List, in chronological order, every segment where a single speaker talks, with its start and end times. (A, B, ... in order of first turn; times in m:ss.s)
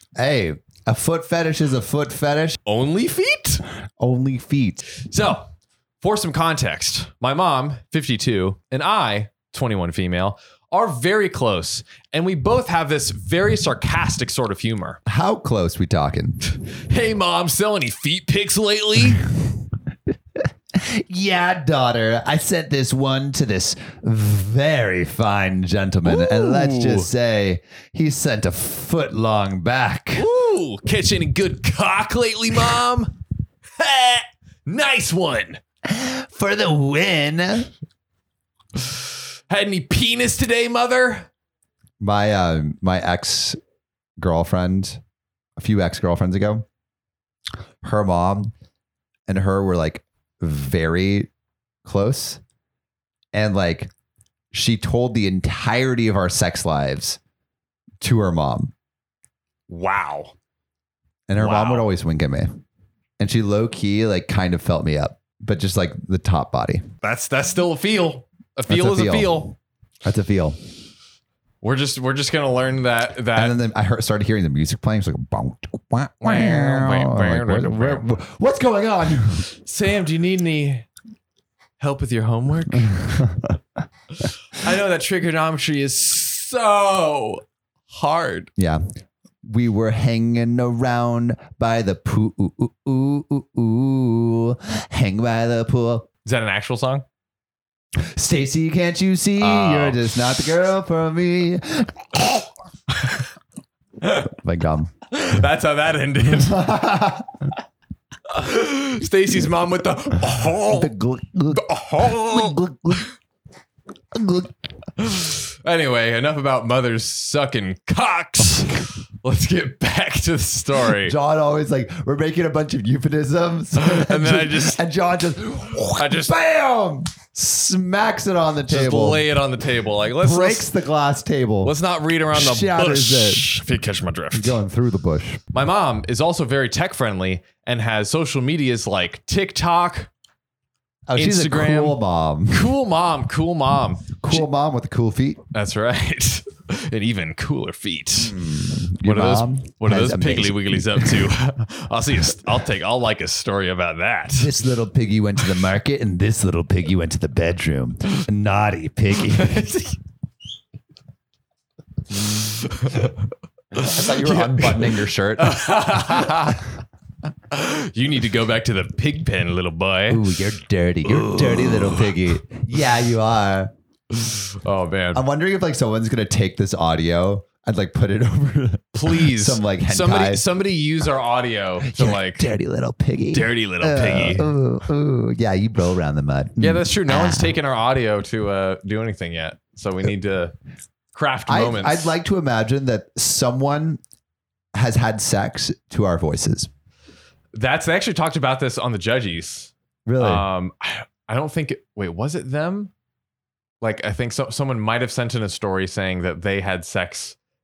0:00.2-0:02.6 A
0:02.7-0:03.6 B
0:04.0-0:04.8 A
0:05.0-0:05.5 B
0:06.0-0:15.0 B
0:15.1-0:16.4 A
0:16.5-0:19.3 B
0:20.7-0:30.3 A
0:26.1-0:27.1 B
0:30.2-0:33.2 B
0:33.8-0:35.6 B
0:35.8-0:37.7 A
0:38.8-0:41.3 B
0:42.0-0:43.6 A
0:44.2-0:45.0 A
0:45.6-0:46.6 A
0:47.8-0:48.5 A
0:49.3-0:51.3 A
0:51.8-0:52.4 A
0:53.3-0:53.9 A
0:54.5-0:57.2 A
0:58.0-0:58.7 A
0:59.7-1:00.3 B
1:01.3-1:02.6 A
1:01.4-1:01.9 B
1:03.2-1:06.8 A
1:07.0-1:09.6 B
1:08.7-1:09.5 A
1:10.0-1:10.6 A
1:11.6-1:13.6 B
1:13.3-1:19.5 A
1:16.2-1:18.2 B
1:19.5-1:20.9 B
1:21.8-1:23.2 B
1:22.7-1:23.6 A
1:24.2-1:28.5 B
1:28.6-1:28.8 A
1:29.4-1:36.1 A
1:36.2-1:37.0 B
1:38.0-1:42.5 A
1:39.4-1:40.0 B
1:42.9-1:43.3 B
1:44.0-1:44.3 B
1:44.2-1:44.9 A
1:45.1-1:46.7 B
1:46.3-1:47.4 A
1:48.3-1:50.9 B
1:50.7-1:53.1 A
1:51.5-1:52.6 B
1:54.1-1:54.6 A
1:55.0-2:01.2 B
2:00.9-2:09.3 A
2:03.8-2:04.8 B
2:06.0-2:06.4 B
2:08.7-2:10.7 B
2:10.2-2:11.8 A
2:11.6-2:14.6 B
2:12.3-2:13.5 A
2:14.3-2:15.4 A
2:15.5-2:20.1 B
2:21.1-2:22.7 A
2:21.2-2:22.0 B
2:22.5-2:24.5 B
2:24.2-2:25.4 A
2:25.5-2:28.4 B
2:28.2-2:31.3 A
2:29.0-2:34.6 B
2:34.4-2:39.6 A
2:39.2-2:40.0 B
2:42.1-2:43.2 B
2:43.7-2:46.6 A
2:43.8-2:46.7 B
2:47.5-2:50.2 B
2:50.1-2:53.7 A
2:51.0-2:52.1 B
2:54.1-2:55.2 B
2:55.1-3:00.5 A
2:59.0-3:02.5 B
3:01.8-3:07.6 A
3:03.3-3:04.5 B
3:06.6-3:10.6 B
3:11.1-3:12.2 B
3:11.5-3:14.0 A
3:14.8-3:16.7 A
3:17.6-3:22.9 B
3:20.1-3:20.4 A
3:23.8-3:27.4 B